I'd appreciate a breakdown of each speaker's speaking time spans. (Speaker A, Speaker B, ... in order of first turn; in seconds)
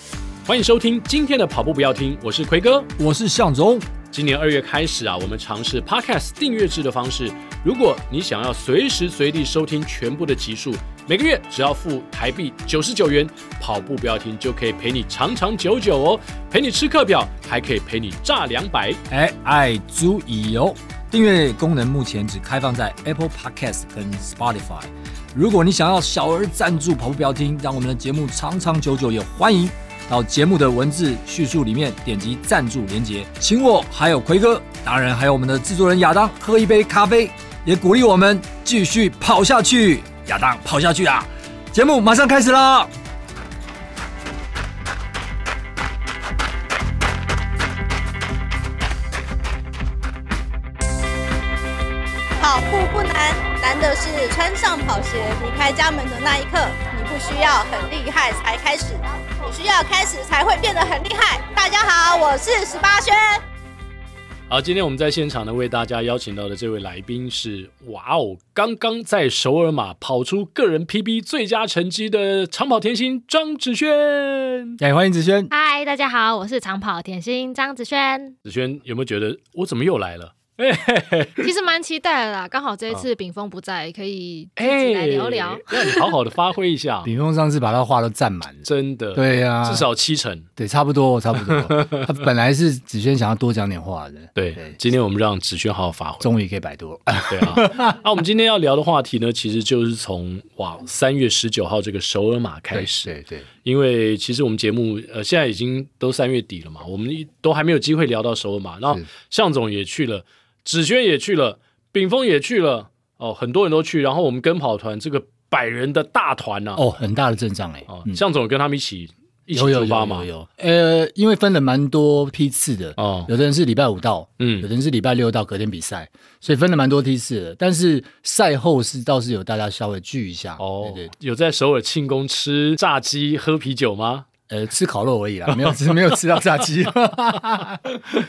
Speaker A: 0.5-2.9, 4.1-19.0, 64.5-74.8, 78.5-81.5, 84.6-87.1, 88.6-90.5, 91.6-92.0, 94.3-96.3, 97.3-103.1, 103.6-116.9, 117.9-120.3, 123.0-123.3, 124.4-124.7, 130.6-134.3, 135.5-136.2
Speaker B: 3.0-3.9, 19.1-42.9, 74.8-75.5, 87.0-89.9, 90.6-94.8, 96.2-97.9, 102.7-103.5, 116.8-118.2, 119.5-131.1, 134.5-138.0
Speaker C: 52.4-63.4
Speaker D: 75.5-78.4, 81.4-86.1